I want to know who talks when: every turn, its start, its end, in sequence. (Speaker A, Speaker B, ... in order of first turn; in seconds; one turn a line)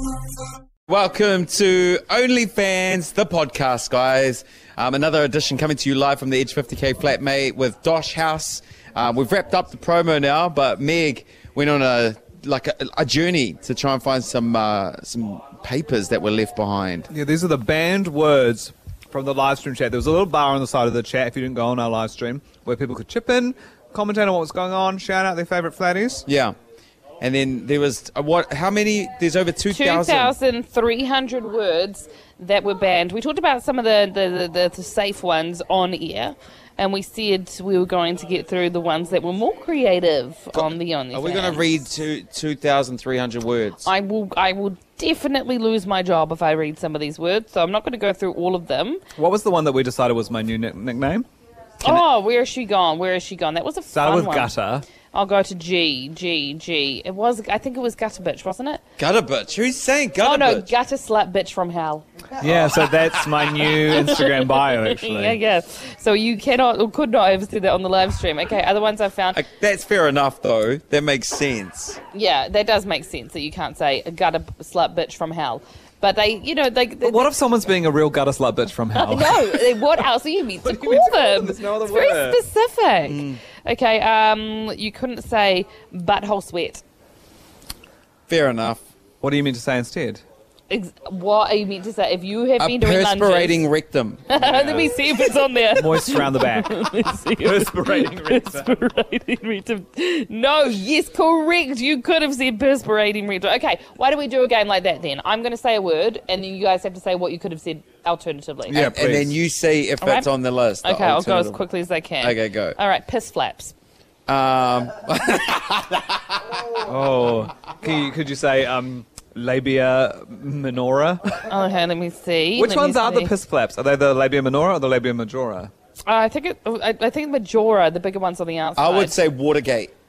Speaker A: 0.9-17.1
Speaker B: 17.1-26.2
Speaker A: 26.3-26.5
Speaker A: 27.2-30.4
Speaker C: 29.7-41.9
Speaker A: 40.5-43.9
Speaker C: 43.8-49.0
Speaker B: 49.2-51.3
Speaker C: 51.8-54.5
Speaker B: 53.9-54.9
Speaker C: 55.1-58.8
Speaker A: 59.0-60.7
Speaker C: 60.2-62.1
Speaker B: 62.4-65.4
Speaker C: 63.6-69.4
Speaker A: 69.3-72.0
Speaker C: 72.1-77.3
Speaker B: 77.0-79.9
Speaker C: 79.0-86.8
Speaker B: 80.6-82.4
Speaker A: 83.0-83.4
Speaker A: 88.3-88.8
Speaker B: 89.2-90.2
Speaker C: 90.7-93.6
Speaker A: 92.6-94.3
Speaker C: 94.3-108.9
Speaker B: 94.4-95.1
Speaker B: 95.7-98.9
Speaker B: 108.7-109.4
Speaker A: 108.8-111.6
Speaker C: 110.0-110.3
Speaker C: 110.8-113.7
Speaker A: 112.2-112.8
Speaker A: 114.3-116.6
Speaker B: 116.8-121.4
Speaker C: 121.4-123.3
Speaker B: 122.6-125.7
Speaker C: 126.0-129.3
Speaker A: 128.8-129.9